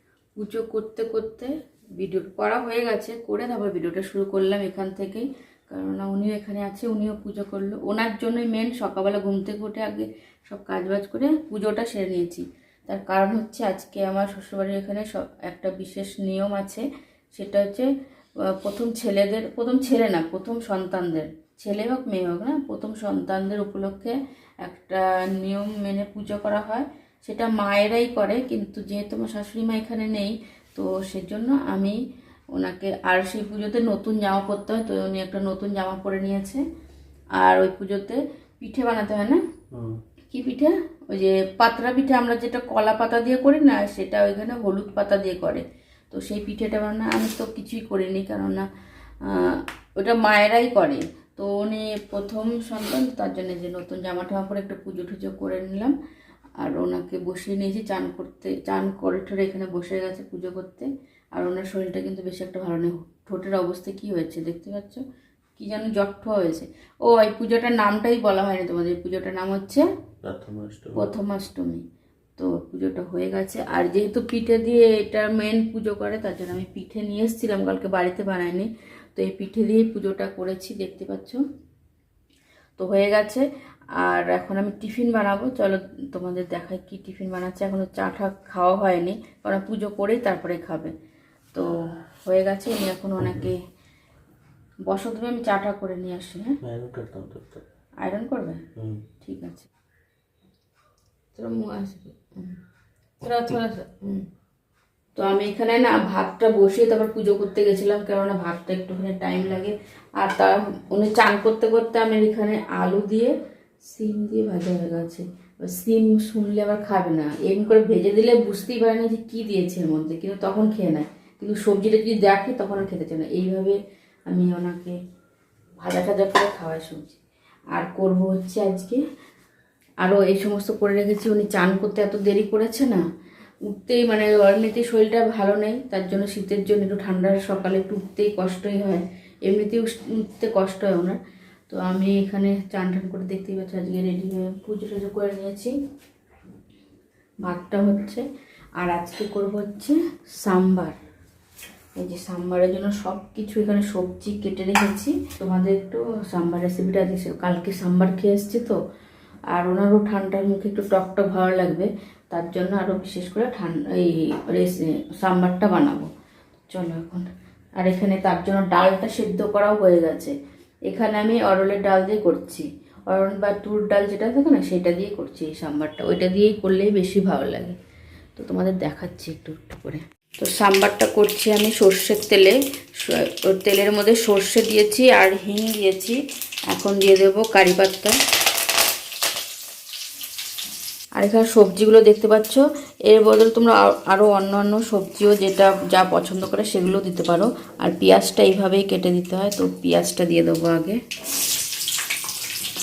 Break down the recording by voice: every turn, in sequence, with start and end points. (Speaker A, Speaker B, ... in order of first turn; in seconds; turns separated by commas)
Speaker A: 0.4-17.9, Speaker A: 18.5-32.0, Speaker A: 32.5-36.6, Speaker A: 37.4-39.4, Speaker B: 39.7-40.0, Speaker A: 40.3-48.7, Speaker A: 49.2-55.9, Speaker A: 56.6-65.0, Speaker A: 65.6-69.9, Speaker B: 70.2-71.0, Speaker A: 71.0-71.8, Speaker A: 72.4-81.4, Speaker A: 82.8-83.5, Speaker A: 84.0-90.9, Speaker A: 91.5-93.6, Speaker A: 94.9-96.6, Speaker B: 96.6-97.6, Speaker A: 98.0-98.6, Speaker B: 98.8-99.0, Speaker A: 99.2-99.7, Speaker A: 101.3-102.6, Speaker A: 103.2-104.3, Speaker A: 105.2-113.3, Speaker A: 113.9-125.0, Speaker A: 125.8-127.2, Speaker A: 127.7-129.0, Speaker A: 130.0-133.0, Speaker A: 133.7-145.8, Speaker A: 147.4-148.2, Speaker A: 148.8-151.0, Speaker A: 152.0-158.8, Speaker A: 159.5-166.1, Speaker A: 166.7-167.3, Speaker A: 167.8-170.3, Speaker A: 170.9-177.8, Speaker A: 178.4-186.2, Speaker A: 186.7-188.2, Speaker A: 191.2-201.0